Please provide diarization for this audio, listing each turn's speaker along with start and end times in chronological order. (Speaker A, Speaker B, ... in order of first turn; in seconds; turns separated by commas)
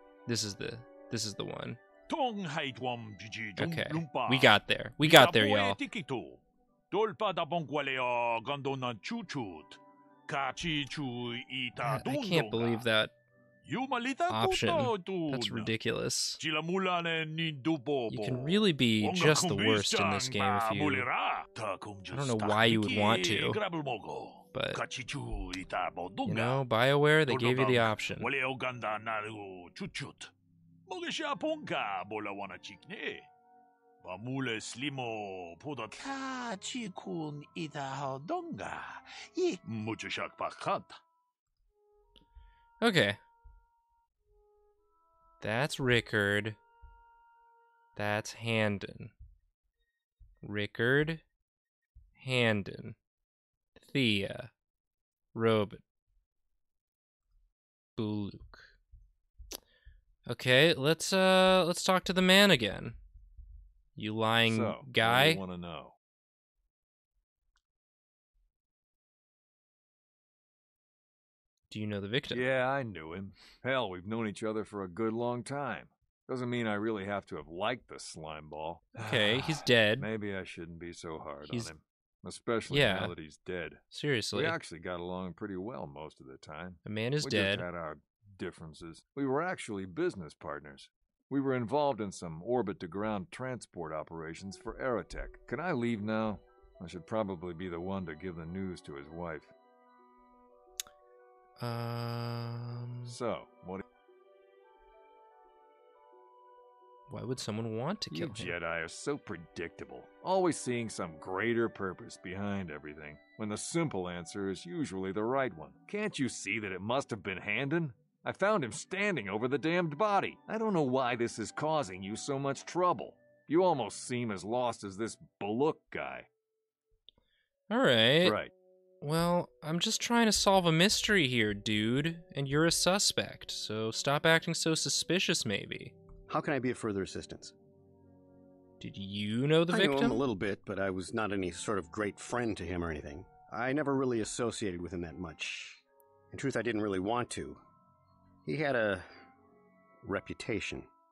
Speaker A: 0.3-1.8, Speaker B: 2.1-12.9, Speaker A: 3.6-5.8, Speaker A: 11.8-13.1, Speaker B: 13.6-15.7, Speaker A: 14.3-16.4, Speaker B: 16.4-26.6, Speaker A: 18.1-21.1, Speaker A: 22.1-23.6, Speaker A: 24.5-24.8, Speaker A: 26.2-28.3, Speaker B: 27.3-30.3, Speaker B: 30.9-33.3, Speaker B: 34.0-41.0, Speaker A: 42.8-43.2, Speaker A: 45.4-46.6, Speaker A: 48.0-49.1, Speaker A: 50.4-51.2, Speaker A: 52.2-53.0, Speaker A: 53.8-54.5, Speaker A: 55.3-55.8, Speaker A: 58.0-58.7, Speaker A: 60.3-63.0, Speaker A: 64.0-65.4, Speaker C: 64.5-66.0, Speaker A: 71.7-72.5, Speaker C: 72.3-83.8, Speaker A: 79.0-80.1, Speaker A: 81.5-81.7, Speaker A: 82.7-83.2, Speaker A: 83.9-84.6, Speaker C: 84.3-99.5, Speaker A: 86.8-87.7, Speaker A: 101.6-103.2, Speaker C: 103.1-103.8, Speaker A: 107.1-108.5, Speaker C: 108.1-126.3, Speaker A: 127.7-128.4, Speaker C: 128.2-128.5, Speaker A: 129.0-135.9, Speaker D: 136.3-137.6, Speaker A: 138.8-140.2, Speaker D: 139.7-147.6, Speaker D: 148.4-149.1, Speaker D: 150.0-150.9